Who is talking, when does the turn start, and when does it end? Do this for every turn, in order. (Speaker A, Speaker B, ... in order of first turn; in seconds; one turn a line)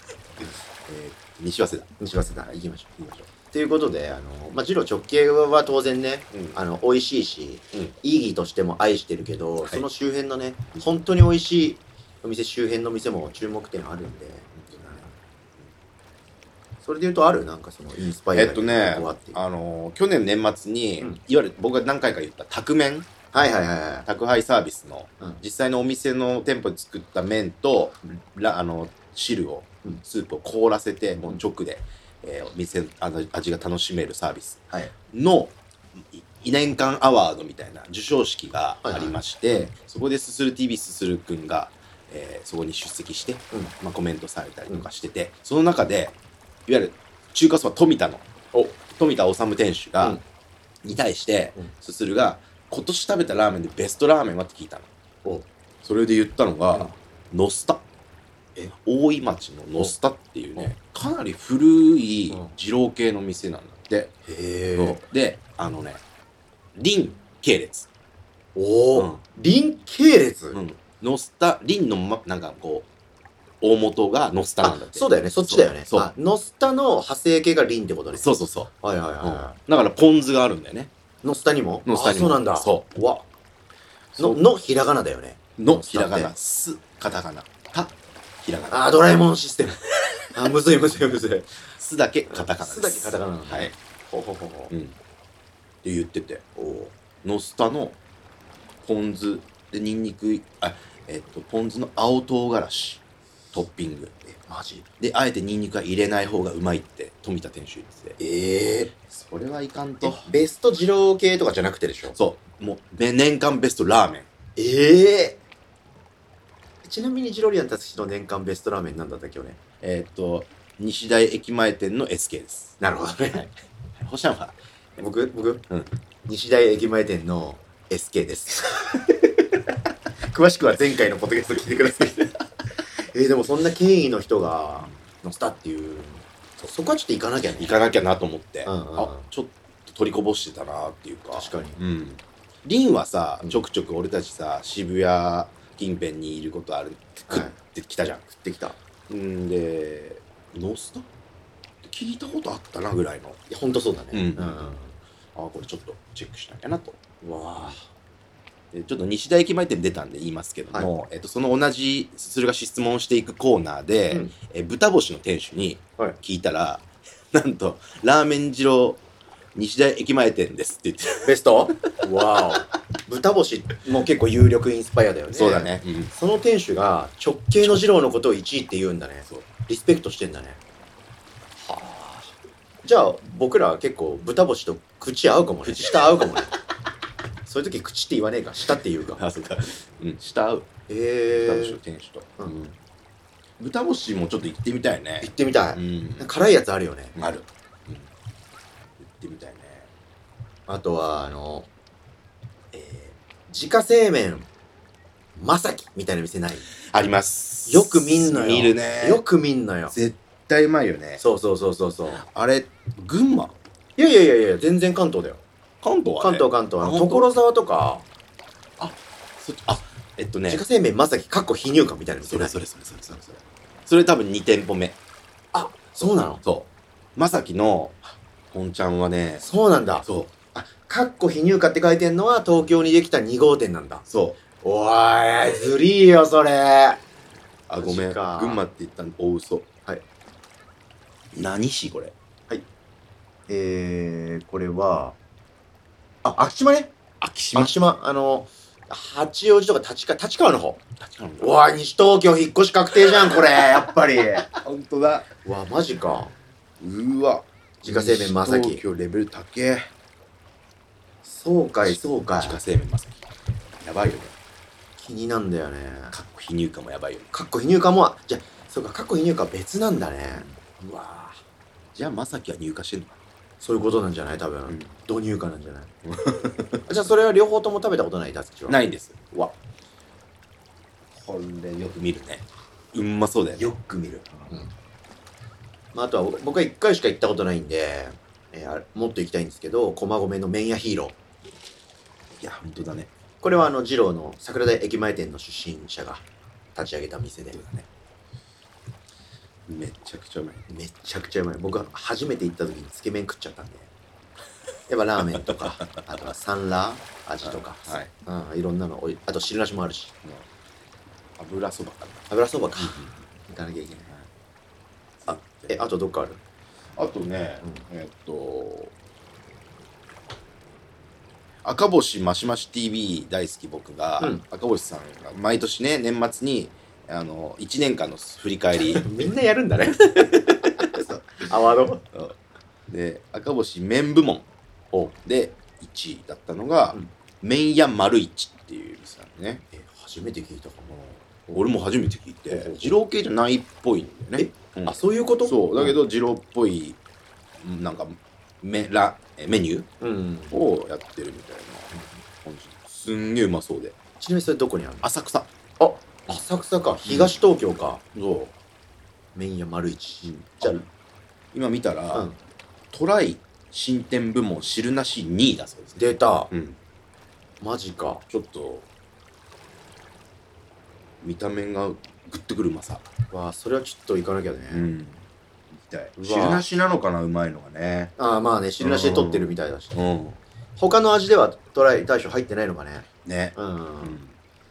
Speaker A: 0.4-1.9
Speaker B: 2.0-3.0
Speaker A: 3.0-3.3
Speaker B: 3.5-15.1
Speaker A: 14.6-15.1
Speaker B: 16.8-19.4
Speaker A: 18.4-23.1
Speaker B: 23.3-24.1
Speaker A: 24.1-48.3
Speaker B: 38.8-39.2
Speaker A: 48.9-50.2
Speaker A: 50.8-54.9
Speaker A: 55.8-57.8
Speaker A: 58.7-64.1
Speaker B: 64.3-65.0
Speaker A: 64.8-66.0
Speaker A: 66.8-67.9
Speaker B: 68.5-70.6
Speaker A: 69.0-69.2
Speaker A: 70.5-72.9
Speaker A: 73.6-76.1
Speaker B: 74.6-79.6
Speaker A: 78.1-78.7
Speaker A: 79.2-80.9
Speaker B: 81.2-83.2
Speaker A: 81.9-82.9
Speaker A: 84.1-84.4
Speaker B: 84.2-86.3
Speaker A: 85.6-88.9
Speaker B: 88.7-91.5
Speaker A: 91.8-93.7
Speaker B: 92.3-94.7
Speaker A: 94.7-95.0
Speaker A: 95.8-96.4
Speaker B: 96.6-96.9
Speaker A: 97.2-98.0
Speaker A: 98.8-103.0
Speaker A: 103.5-104.3
Speaker B: 104.5-104.8
Speaker A: 105.0-108.2
Speaker B: 108.2-108.9
Speaker A: 109.0-110.3
Speaker B: 110.0-112.2
Speaker A: 112.2-114.3
Speaker B: 114.6-115.4
Speaker B: 116.8-119.6
Speaker A: 119.8-122.8
Speaker B: 122.8-123.5
Speaker A: 124.0-124.6
Speaker B: 125.0-125.7
Speaker B: 126.3-129.0
Speaker B: 130.2-132.2
Speaker A: 131.8-132.3
Speaker B: 133.0-137.7
Speaker A: 137.6-148.3
Speaker B: 138.7-139.3
Speaker B: 141.3-141.8
Speaker B: 147.3-147.6
Speaker B: 148.4-148.8
Speaker A: 149.1-151.1
Speaker A: 151.8-153.4
Speaker B: 153.5-155.0
Speaker A: 154.1-154.8
Speaker A: 155.3-157.0
Speaker B: 157.2-157.9
Speaker A: 158.7-169.0
Speaker A: 169.6-171.3
Speaker B: 171.2-180.6
Speaker A: 175.3-176.1
Speaker A: 177.6-177.9
Speaker B: 181.6-186.6
Speaker A: 185.6-186.4
Speaker B: 187.4-189.2
Speaker A: 189.2-190.7
Speaker B: 190.9-191.8
Speaker A: 191.3-192.8
Speaker A: 193.6-196.3
Speaker B: 195.2-197.2
Speaker A: 197.2-198.1
Speaker A: 199.0-199.9
Speaker B: 200.7-201.7
Speaker B: 202.7-204.5
Speaker B: 205.4-206.7
Speaker A: 206.8-209.2
Speaker B: 207.7-209.9
Speaker A: 209.9-211.2
Speaker B: 211.2-212.2
Speaker A: 212.2-213.6
Speaker B: 214.0-215.4
Speaker A: 215.8-217.3
Speaker B: 216.2-218.1
Speaker A: 218.8-220.6
Speaker B: 220.5-222.6
Speaker A: 222.2-225.0
Speaker B: 225.5-226.4
Speaker A: 226.4-229.4
Speaker B: 229.4-234.0
Speaker A: 230.0-230.3
Speaker A: 234.1-234.4
Speaker B: 234.6-237.0
Speaker A: 237.7-239.7
Speaker B: 237.8-238.6
Speaker A: 241.3-242.1
Speaker B: 243.5-245.2
Speaker B: 246.2-246.9
Speaker A: 247.2-247.8
Speaker B: 247.5-250.8
Speaker A: 251.0-251.5
Speaker B: 251.4-254.5
Speaker A: 253.1-255.3
Speaker B: 255.4-256.3
Speaker A: 256.8-259.9
Speaker B: 257.8-258.8
Speaker B: 261.2-262.6
Speaker A: 261.9-263.2
Speaker A: 263.8-264.4
Speaker B: 265.0-266.1
Speaker A: 266.1-267.3
Speaker B: 267.3-271.4
Speaker A: 271.9-273.2
Speaker B: 273.6-275.9
Speaker A: 276.1-277.0
Speaker B: 276.9-278.8
Speaker A: 278.7-279.2
Speaker A: 281.1-283.7
Speaker B: 283.6-284.7
Speaker B: 285.9-291.2
Speaker A: 292.4-293.1
Speaker B: 293.4-296.2
Speaker B: 296.8-297.6
Speaker A: 297.5-297.9
Speaker A: 299.7-300.7
Speaker B: 300.7-303.9
Speaker B: 304.9-310.1
Speaker A: 305.4-306.0
Speaker A: 307.4-308.1
Speaker A: 311.4-313.1
Speaker B: 312.3-314.1
Speaker A: 315.2-315.8
Speaker B: 315.3-316.4
Speaker A: 317.0-318.9
Speaker A: 321.6-329.3
Speaker B: 328.8-332.1
Speaker A: 329.9-331.2
Speaker A: 332.9-334.5
Speaker A: 335.2-339.6
Speaker B: 339.7-340.9
Speaker A: 340.9-347.0
Speaker B: 342.5-342.8
Speaker B: 344.4-346.0
Speaker A: 347.6-349.9
Speaker B: 350.0-350.6
Speaker A: 350.5-353.9
Speaker B: 354.2-355.1
Speaker A: 355.0-355.5
Speaker B: 355.8-358.0
Speaker A: 357.1-357.4
Speaker A: 358.1-358.5
Speaker B: 359.4-360.9
Speaker A: 360.2-360.8
Speaker A: 361.5-362.3
Speaker A: 362.9-366.8
Speaker B: 366.0-366.5
Speaker B: 367.6-368.2
Speaker A: 368.3-368.9
Speaker A: 371.2-373.1
Speaker B: 373.3-374.9
Speaker A: 374.7-378.1
Speaker B: 376.2-376.6
Speaker B: 378.2-380.0
Speaker A: 378.8-380.4
Speaker B: 380.8-384.2
Speaker A: 383.2-384.3